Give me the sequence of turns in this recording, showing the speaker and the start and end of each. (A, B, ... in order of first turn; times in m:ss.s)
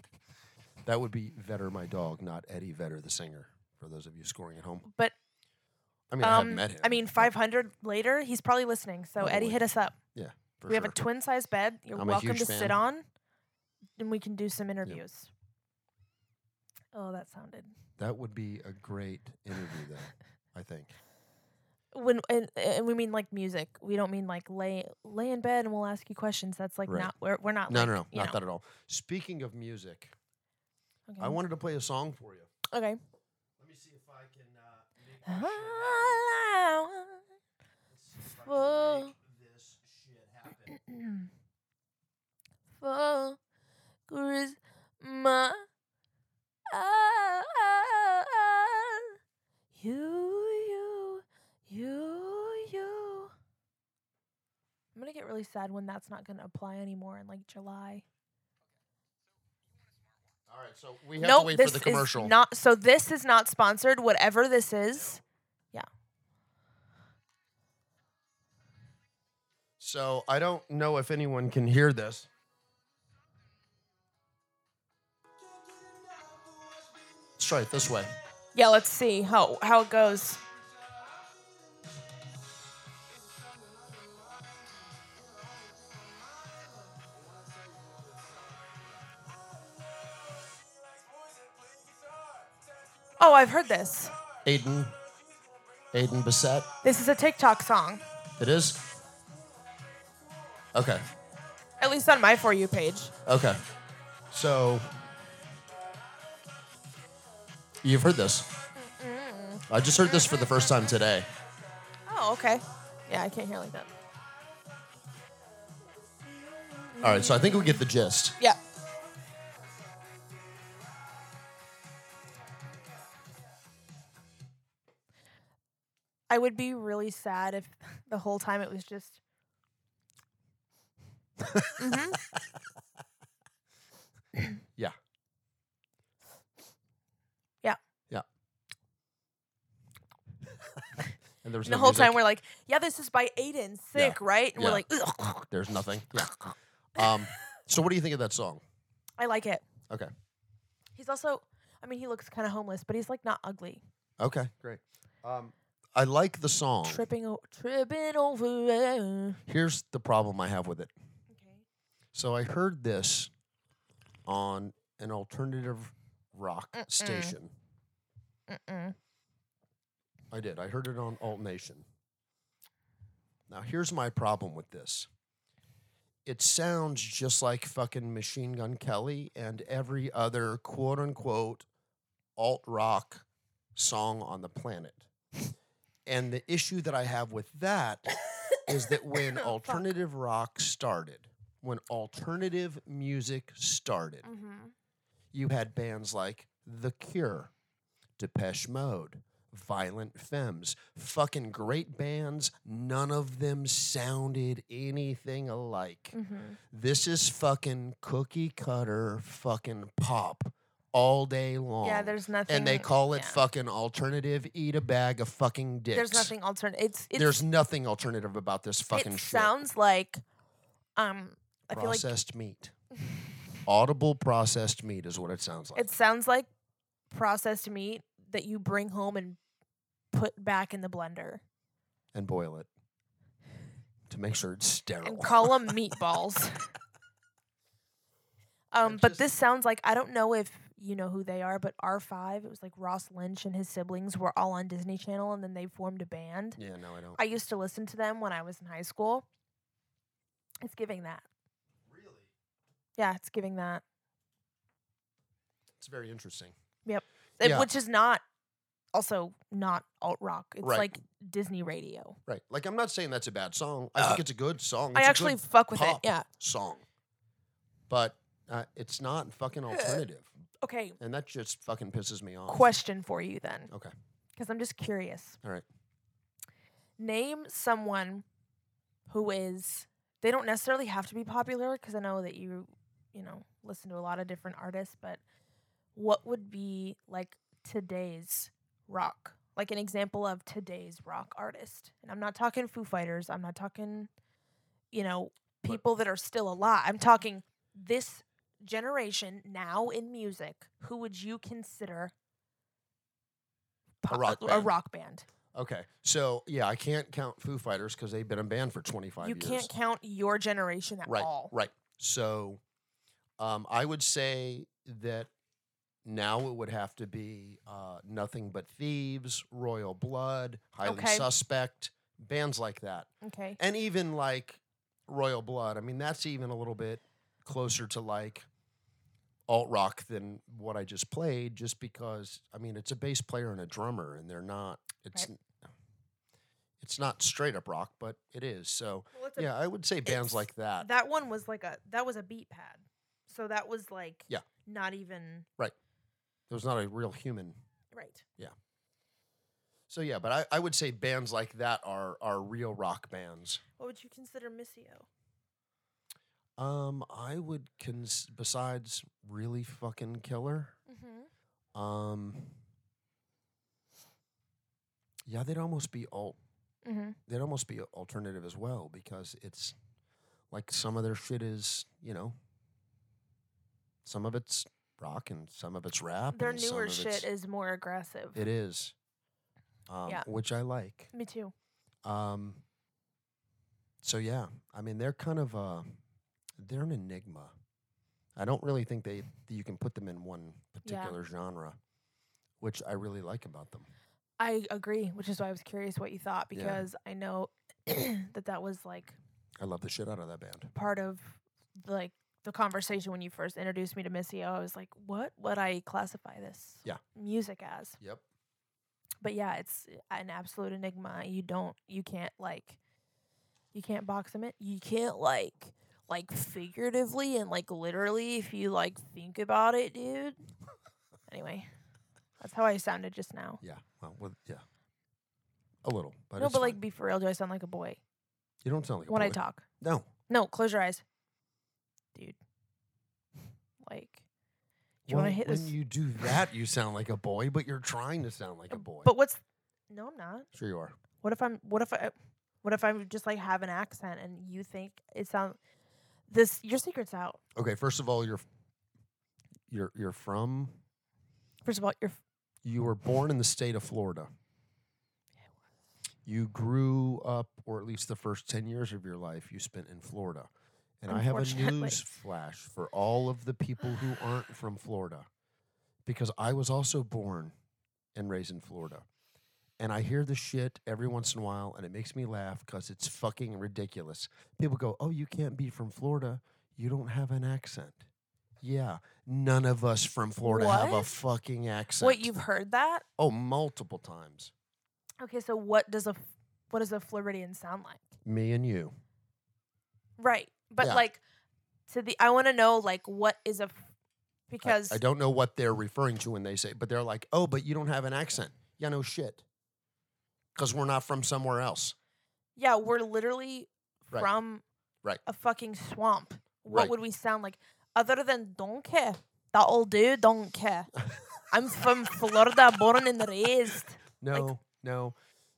0:00.8-0:04.9 A
0:04.9-0:05.1 B
0:06.1-0:07.3 A
0:06.2-0:10.0 B
0:09.2-0:09.6 A
0:10.1-0:11.0 A
0:10.7-0:13.0 B
0:11.9-0:12.8 A
0:14.0-0:15.3 B
0:16.9-0:17.7 B
0:18.0-0:20.9 A
0:21.9-0:28.4 B
0:27.7-0:30.1 A
0:31.1-0:31.4 B
0:31.2-0:32.5 A
0:32.7-0:33.0 B
0:33.6-0:36.3 A
0:35.2-0:37.2 B
0:37.9-0:40.8 A
0:38.4-0:39.1 B
0:40.7-0:41.3 B
0:42.8-0:43.4 B
0:44.1-0:45.6 B
0:46.7-0:49.2 B
0:49.7-0:53.3 B
0:54.9-0:58.0 B
1:00.5-1:02.3 A
1:01.2-1:05.2 B
1:09.8-1:12.3 A
1:17.4-1:18.1 A
1:18.5-1:20.4 B
1:33.2-1:34.1 B
1:34.4-1:34.9 A
1:35.9-1:36.7 A
1:36.8-1:38.0 B
1:38.4-1:38.9 A
1:40.7-1:41.0 A
1:41.8-1:43.1 B
1:43.2-1:43.6 A
1:44.3-1:45.0 A
1:47.8-1:48.5 A
1:48.8-1:50.5 B
1:49.7-1:51.3 A
1:52.1-1:53.9 B
1:56.9-1:57.8 B
1:57.0-1:58.4 A
2:06.3-2:09.2 B
2:11.4-2:12.6 A
2:11.8-2:12.2 B
2:21.4-2:22.2 A
2:21.6-2:25.5 B
2:23.9-2:24.8 A
2:25.5-2:26.4 A
2:26.2-2:27.4 B
2:26.9-2:28.6 A
2:29.2-2:29.6 B
2:30.9-2:33.8 B
2:34.2-2:37.0 A
2:36.8-2:39.4 B
2:39.5-2:40.9 A
2:41.3-2:41.6 B
2:42.1-2:43.3 A
2:44.2-2:47.5 A
2:46.8-2:47.3 B
2:48.5-2:49.0 B
2:50.3-2:51.8 A
2:53.5-2:55.1 A
2:56.2-3:01.6 A
3:02.4-3:05.1 A
3:06.0-3:14.3 A
3:09.1-3:09.8 B
3:14.2-3:14.7 B
3:15.3-3:17.5 A
3:18.2-3:26.2 A
3:26.1-3:26.6 B
3:26.7-3:36.3 A
3:31.8-3:33.4 B
3:35.9-3:37.4 B
3:37.1-3:39.5 A
3:38.9-3:40.2 B
3:41.0-3:42.1 B
3:41.7-3:42.7 A
3:43.6-3:45.9 A
3:45.7-3:46.5 B
3:47.1-3:49.4 B
3:50.1-3:51.4 B
3:52.1-3:52.7 A
3:54.1-3:55.7 A
3:55.0-3:56.7 B
3:58.7-4:06.6 B
3:58.8-3:59.2 A
4:06.6-4:07.2 A
4:07.2-4:09.2 B
4:10.6-4:11.2 B
4:11.9-4:12.3 A
4:13.0-4:13.8 B
4:15.8-4:16.5 A
4:16.8-4:18.2 B
4:17.4-4:17.7 A
4:18.9-4:22.2 B
4:20.6-4:20.9 A
4:22.3-4:26.8 A
4:24.9-4:26.2 B
4:27.9-4:30.3 A
4:29.7-4:30.0 B
4:30.6-4:31.0 B
4:31.0-4:32.7 A
4:32.5-4:33.7 B
4:34.4-4:35.4 B
4:37.0-4:38.2 B
4:39.1-4:45.2 B
4:45.9-4:54.1 B
4:54.9-5:02.1 B
5:04.0-5:05.3 B
5:04.1-5:04.7 A
5:05.5-5:09.7 A
5:09.2-5:11.5 B
5:11.0-5:12.6 A
5:13.4-5:15.3 A
5:16.0-5:28.5 A
5:20.8-5:21.3 B
5:23.2-5:23.6 B
5:29.5-5:35.5 A
5:36.8-5:40.9 A
5:39.1-5:39.5 B
5:40.0-5:45.5 B
5:46.5-5:47.6 A
5:47.9-5:48.2 B
5:49.9-5:53.6 A
5:53.8-5:55.1 B
5:56.6-6:00.8 A
6:00.9-6:01.3 B
6:01.7-6:02.6 A
6:05.2-6:06.4 A
6:06.8-6:07.2 B
6:07.3-6:09.8 A
6:10.5-6:12.3 A
6:14.0-6:17.3 A
6:16.3-6:18.4 B
6:18.3-6:18.9 A
6:19.9-6:21.1 A
6:21.1-6:21.5 B
6:22.0-6:22.6 A
6:24.0-6:25.9 A
6:26.6-6:27.5 A
6:28.4-6:31.8 A
6:30.8-6:31.2 B
6:32.6-6:33.9 A
6:34.4-6:39.2 B
6:36.5-6:36.8 A
6:39.6-6:40.7 A
6:40.7-6:48.0 B
6:49.2-6:52.8 B
6:53.7-7:00.4 B
7:01.3-7:01.7 B
7:02.4-7:03.6 B
7:03.6-7:04.6 A
7:05.8-7:06.8 A
7:06.4-7:08.0 B
7:08.6-7:10.1 A
7:09.1-7:09.6 B
7:10.3-7:11.0 B
7:13.8-7:14.2 B
7:15.1-7:15.7 B
7:15.1-7:19.1 A
7:18.7-7:20.5 B
7:20.5-7:21.0 A
7:21.2-7:25.6 B
7:26.3-7:27.4 B
7:27.5-7:28.4 A
7:29.7-7:30.8 A
7:31.6-7:32.2 B
7:32.6-7:34.3 A
7:36.2-7:45.3 A
7:41.1-7:42.1 B
7:46.0-7:47.5 A
7:48.1-7:49.0 A
7:49.8-7:58.0 A
7:58.6-8:02.3 A
8:00.4-8:01.1 B
8:02.0-8:03.0 B
8:03.2-8:04.5 A
8:05.2-8:08.1 B
8:08.2-8:09.0 A
8:10.2-8:11.2 B
8:11.9-8:13.9 B
8:14.5-8:15.0 B
8:14.6-8:19.4 A
8:20.6-8:21.9 A
8:22.6-8:24.6 B
8:25.2-8:30.9 B
8:26.7-8:26.9 A
8:31.5-8:34.5 B
8:34.2-8:35.2 A